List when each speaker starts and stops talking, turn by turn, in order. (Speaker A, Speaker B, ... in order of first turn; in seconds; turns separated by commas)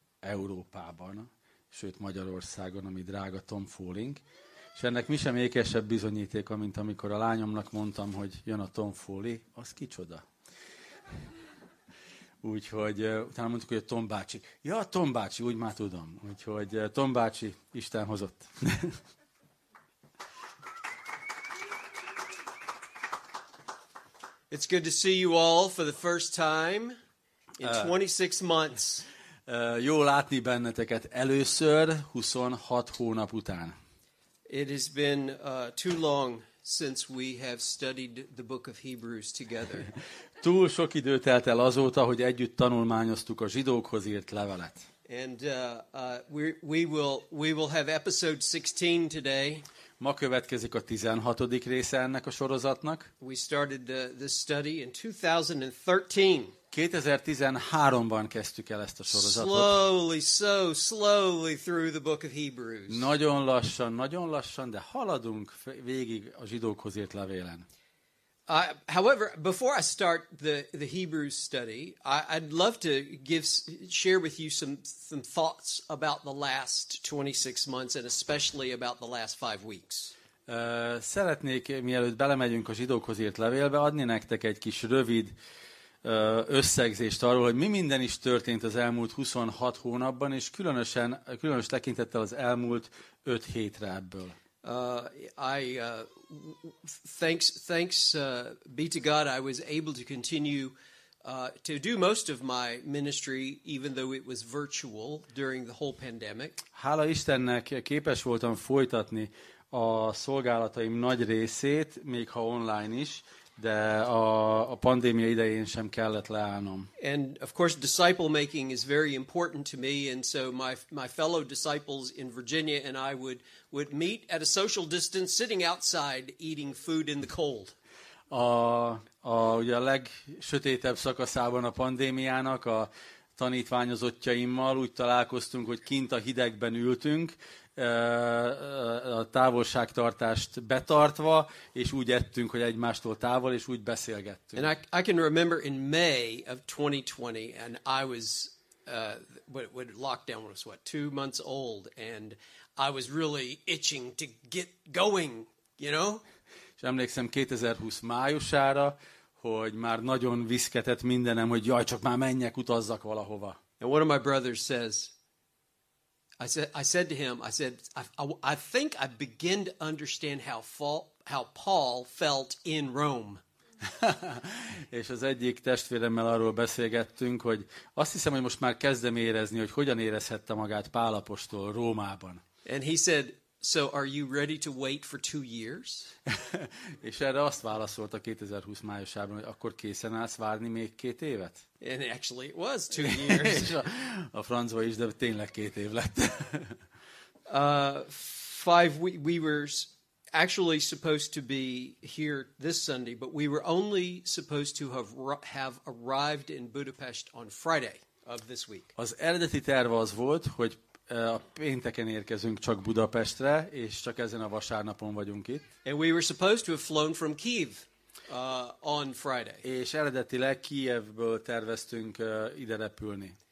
Speaker A: 0.2-4.2, Speaker A: 4.8-10.2, Speaker A: 12.4-19.0, Speaker B: 24.5-27.0, Speaker B: 27.6-29.1, Speaker A: 27.6-27.9, Speaker A: 29.5-33.8, Speaker B: 34.5-39.9, Speaker A: 40.4-44.9, Speaker B: 45.1-49.6, Speaker A: 50.0-53.1, Speaker B: 53.2-56.5, Speaker A: 56.7-59.8, Speaker B: 59.1-63.1, Speaker A: 62.9-67.7, Speaker B: 68.5-80.1, Speaker A: 80.5-85.3, Speaker A: 86.0-94.4, Speaker B: 94.6-106.6, Speaker A: 106.7-116.9, Speaker B: 117.0-127.8, Speaker A: 128.3-144.7, Speaker B: 144.6-156.2, Speaker A: 156.8-163.6, Speaker B: 163.8-165.1, Speaker B: 166.4-173.4, Speaker A: 173.9-182.4, Speaker B: 182.6-186.1, Speaker A: 186.3-191.6, Speaker B: 191.8-193.8, Speaker A: 193.0-196.8, Speaker B: 197.5-208.9, Speaker A: 208.9-215.7, Speaker B: 215.8-219.6, Speaker A: 219.6-223.3